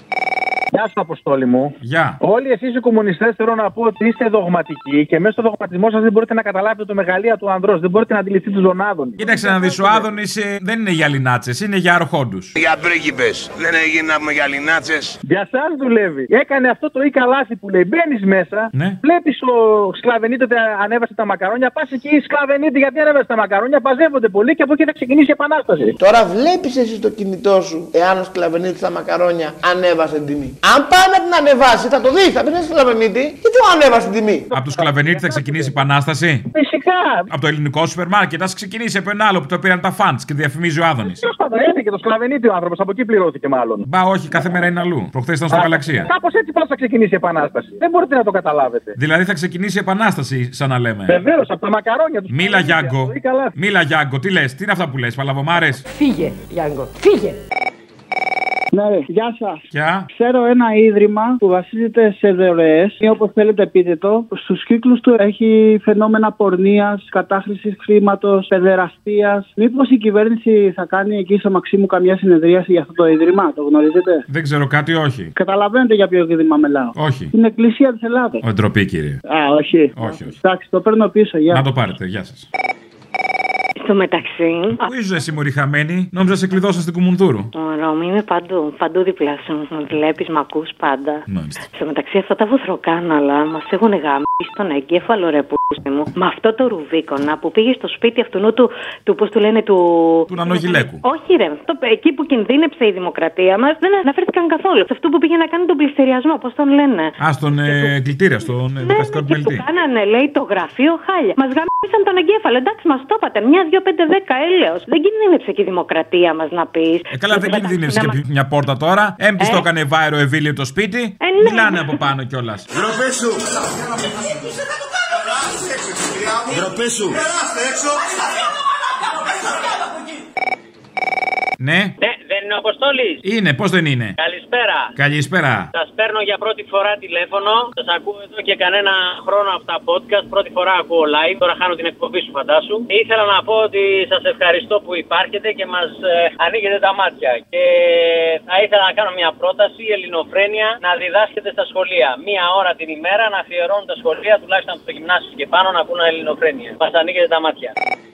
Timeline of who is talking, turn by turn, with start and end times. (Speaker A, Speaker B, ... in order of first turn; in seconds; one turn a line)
Speaker A: 0.7-10.1
Speaker B: 1.8-2.2
Speaker B: 9.2-12.5
Speaker C: 12.6-15.1
Speaker A: 15.2-25.9
Speaker B: 18.7-19.0
Speaker D: 26.0-34.5
Speaker A: 34.5-35.8
Speaker B: 34.5-36.4
Speaker A: 36.5-37.2
Speaker B: 37.3-41.2
Speaker A: 41.0-44.6
Speaker B: 43.8-46.1
Speaker A: 45.5-49.0
Speaker B: 49.0-51.2
Speaker A: 51.1-53.5
Speaker B: 52.3-55.8
Speaker E: 58.7-74.2
Speaker B: 59.7-60.0
Speaker B: 74.3-75.3
Speaker E: 75.3-78.4
Speaker B: 76.9-77.3
Speaker B: 78.4-79.2
Speaker E: 79.2-81.6
Speaker B: 80.0-80.3
Speaker B: 81.5-82.5
Speaker F: 83.8-84.8
Speaker B: 84.8-87.5
Speaker F: 87.5-91.2
Speaker B: 91.3-91.6
Speaker F: 91.7-107.9
Speaker B: 100.3-101.0
Speaker B: 107.2-109.6
Speaker F: 108.8-118.2
Speaker B: 117.1-122.7
Speaker F: 119.4-119.7
Speaker F: 121.2-122.0
Speaker B: 131.6-131.9
Speaker G: 132.0-133.2
Speaker B: 133.2-134.2
Speaker G: 134.2-134.9
Speaker B: 134.9-135.7
Speaker G: 135.7-157.7